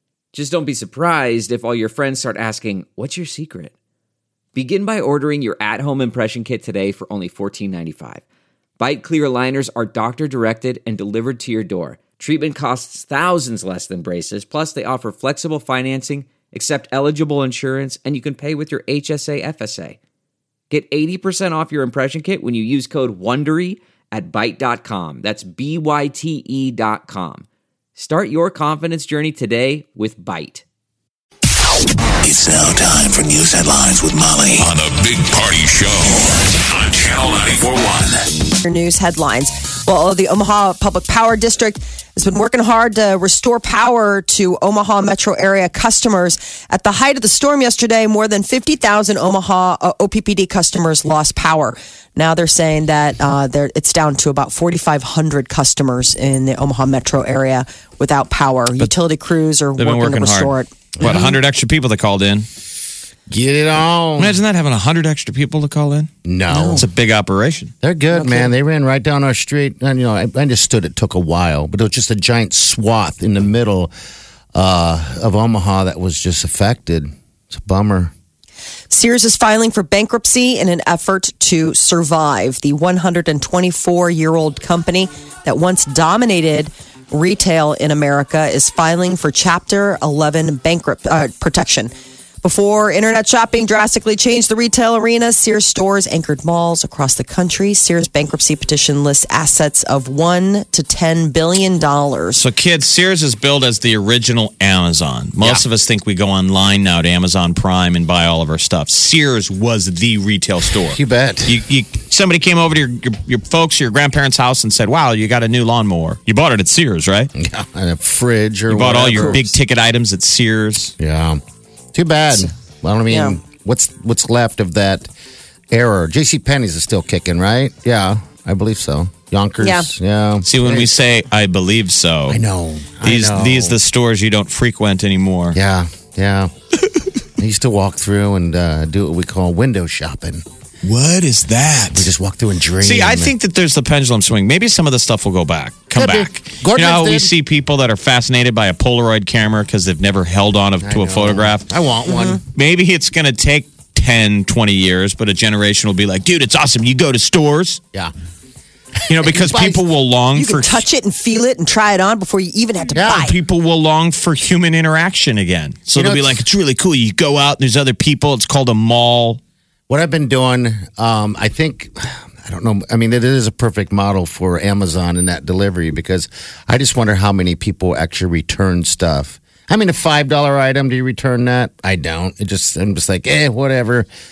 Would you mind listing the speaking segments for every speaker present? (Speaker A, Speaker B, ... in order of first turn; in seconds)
Speaker A: 0.3-3.7, 4.5-8.2, 8.8-20.0, 20.7-30.6
Speaker B: 32.2-38.3
Speaker C: 38.6-60.7, 66.5-66.8, 68.1-68.5, 78.9-91.9, 92.4-102.4, 123.1-123.4, 129.6-129.9, 152.1-152.4, 160.3-163.3
Speaker D: 59.8-62.5, 64.2-66.1, 66.7-67.7, 102.4-117.3, 118.7-121.0, 130.4-132.4, 133.0-135.6, 140.8-142.1, 142.8-151.7, 152.5-157.8, 159.1-160.8, 163.1-169.4
Speaker E: 61.0-61.4, 63.3-64.4, 66.2-66.9, 67.8-73.9, 74.5-78.1, 110.8-111.6, 117.4-119.5, 121.0-121.4, 121.9-125.1, 125.7-130.9, 132.3-133.8, 135.5-136.5, 137.4-140.4, 141.9-143.3, 145.9-147.3, 150.8-152.4, 159.1-159.8, 162.9-163.3, 165.9-166.4, 169.9-184.1